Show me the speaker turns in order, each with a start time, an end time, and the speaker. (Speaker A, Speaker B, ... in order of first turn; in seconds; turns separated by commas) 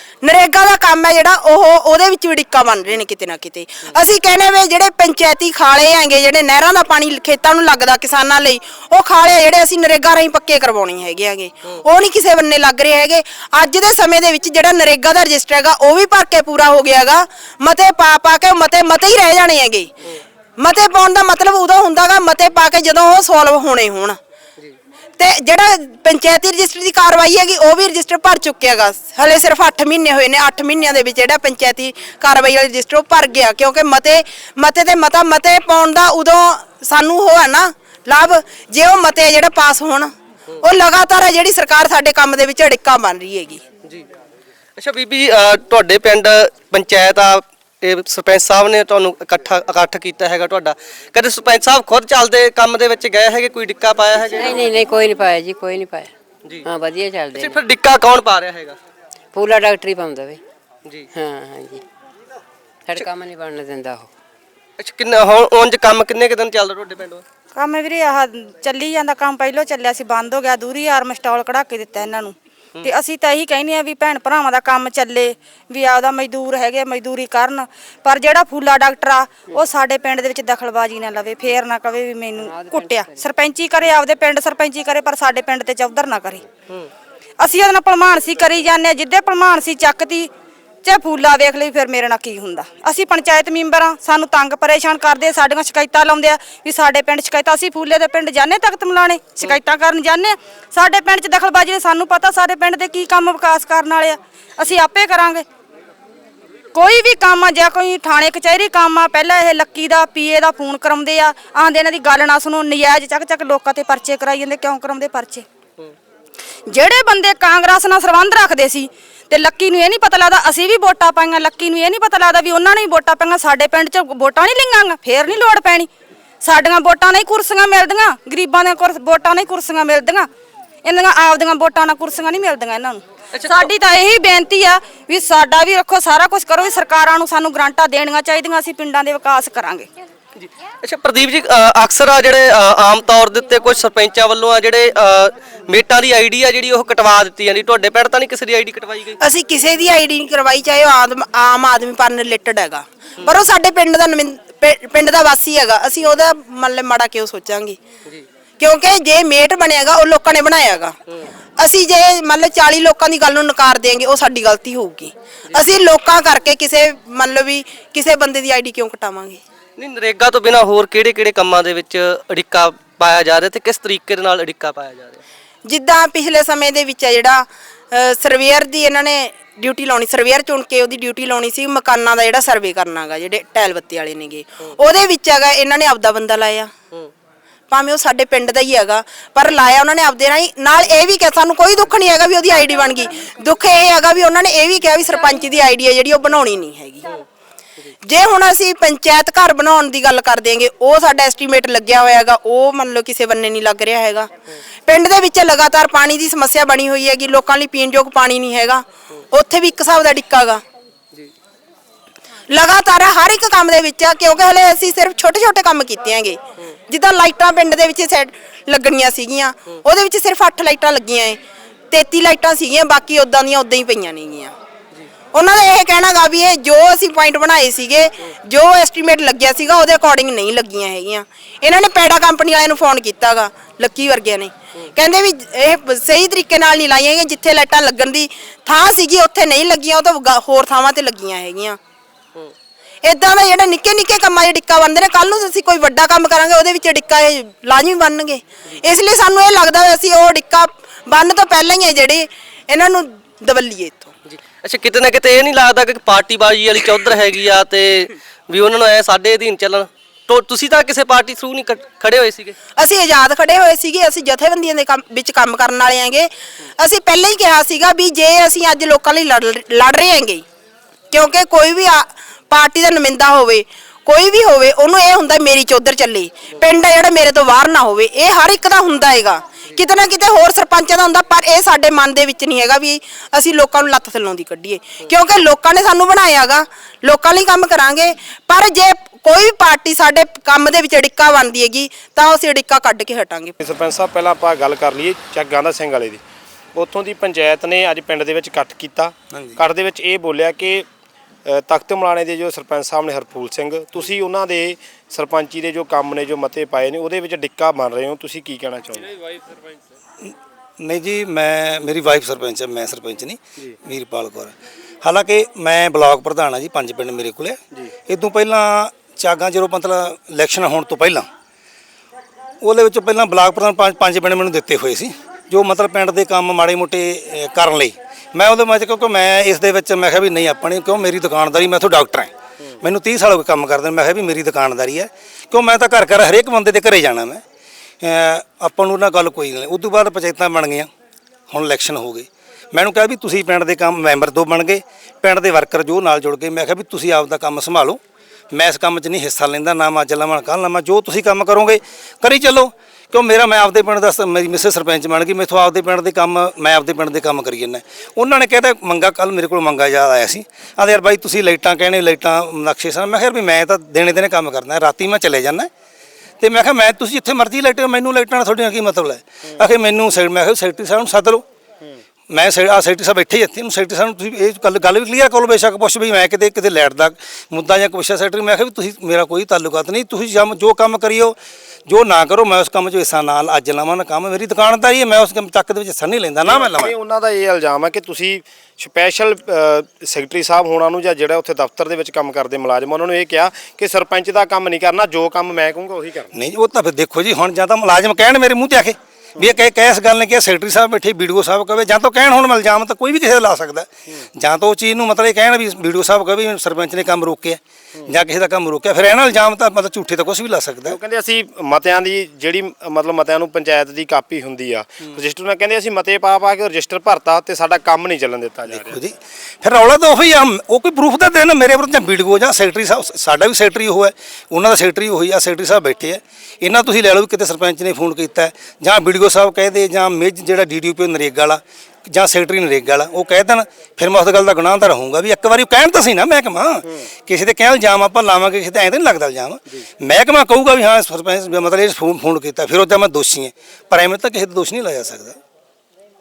Speaker A: 0.2-19.9, Speaker A: 20.6-24.2, Speaker A: 25.2-43.6, Speaker B: 44.8-54.7, Speaker C: 54.3-57.6, Speaker B: 57.3-58.8, Speaker C: 59.3-60.4, Speaker C: 61.1-61.9, Speaker C: 62.9-64.1, Speaker B: 64.8-67.2, Speaker D: 67.5-86.4, Speaker C: 82.4-83.3, Speaker D: 87.4-90.3, Speaker D: 90.8-105.4, Speaker D: 106.7-115.5, Speaker D: 116.7-125.9, Speaker D: 126.4-130.3, Speaker D: 130.8-139.9, Speaker B: 133.3-133.7, Speaker B: 140.4-149.2, Speaker A: 149.2-157.8, Speaker A: 158.6-160.9, Speaker A: 161.6-169.4, Speaker B: 169.8-175.2, Speaker A: 175.7-186.7, Speaker A: 187.7-197.1, Speaker A: 198.0-204.3, Speaker A: 204.8-210.6, Speaker A: 212.5-221.4, Speaker A: 221.9-224.5, Speaker A: 225.3-241.8, Speaker A: 243.0-254.1, Speaker B: 254.3-262.6, Speaker A: 262.8-270.4, Speaker A: 271.1-293.6, Speaker E: 293.6-296.2, Speaker E: 296.7-300.9, Speaker F: 299.3-299.6, Speaker E: 301.4-309.2, Speaker F: 310.2-321.3, Speaker F: 322.6-337.4, Speaker F: 338.0-340.9, Speaker F: 341.5-348.0, Speaker F: 348.5-365.7, Speaker F: 366.4-371.4, Speaker F: 372.3-386.9, Speaker E: 386.4-396.3, Speaker F: 396.3-411.0, Speaker E: 410.9-418.9, Speaker F: 418.7-445.4